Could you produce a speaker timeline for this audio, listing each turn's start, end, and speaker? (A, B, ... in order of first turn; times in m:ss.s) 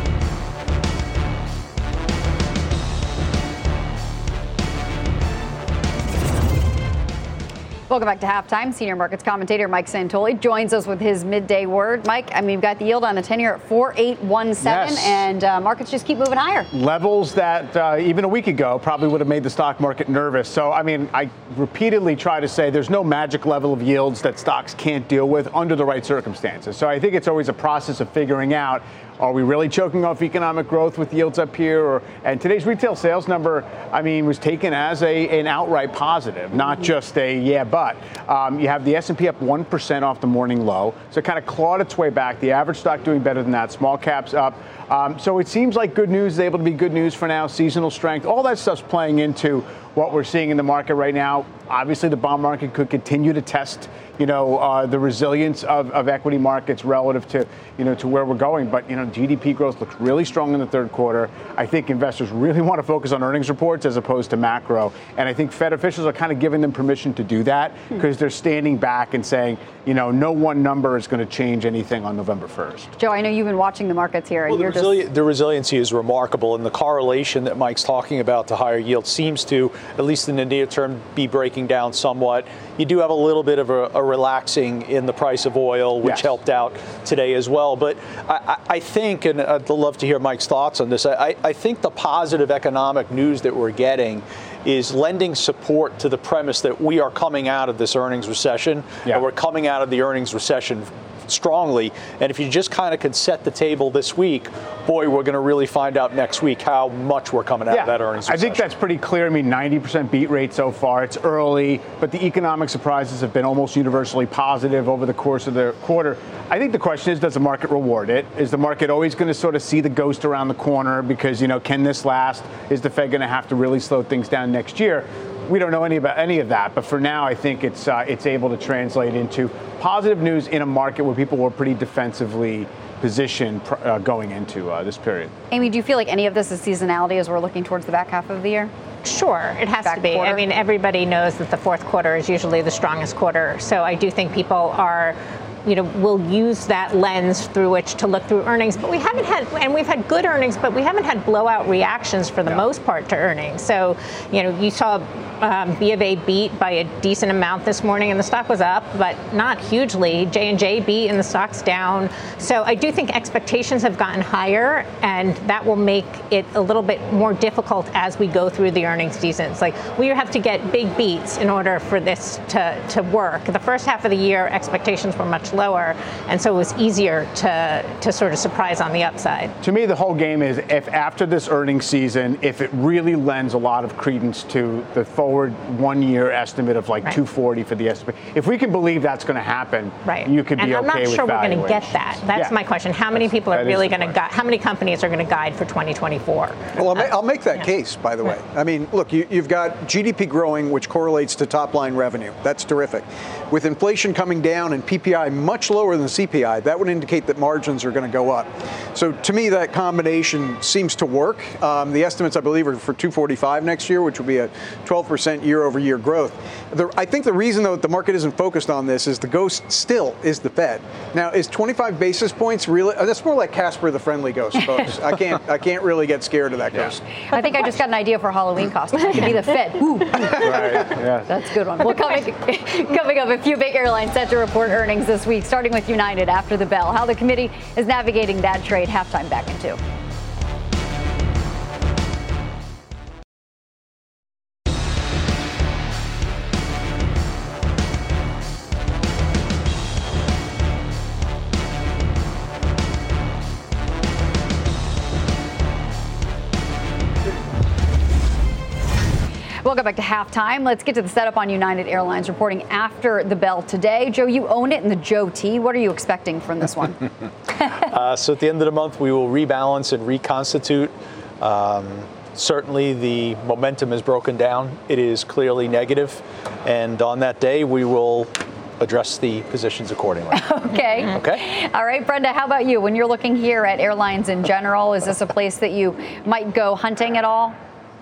0:07.9-0:16.7 A
0:14.6-0:15.3 B
0:16.7-1:12.9 B
1:13.0-1:15.0 A
1:14.5-1:48.7 C
1:26.0-1:26.3 B
1:47.7-2:15.3 B
2:15.5-2:18.7 A
2:19.0-2:59.6 D
2:19.8-2:20.4 A
2:59.6-3:12.5 B
3:10.0-3:17.7 D
3:13.2-3:14.2 B
3:16.8-3:47.0 E
3:47.3-3:59.8 A
3:50.2-3:51.3 B
4:19.6-4:27.0 A
4:27.8-4:41.5 C
4:40.3-4:47.6 A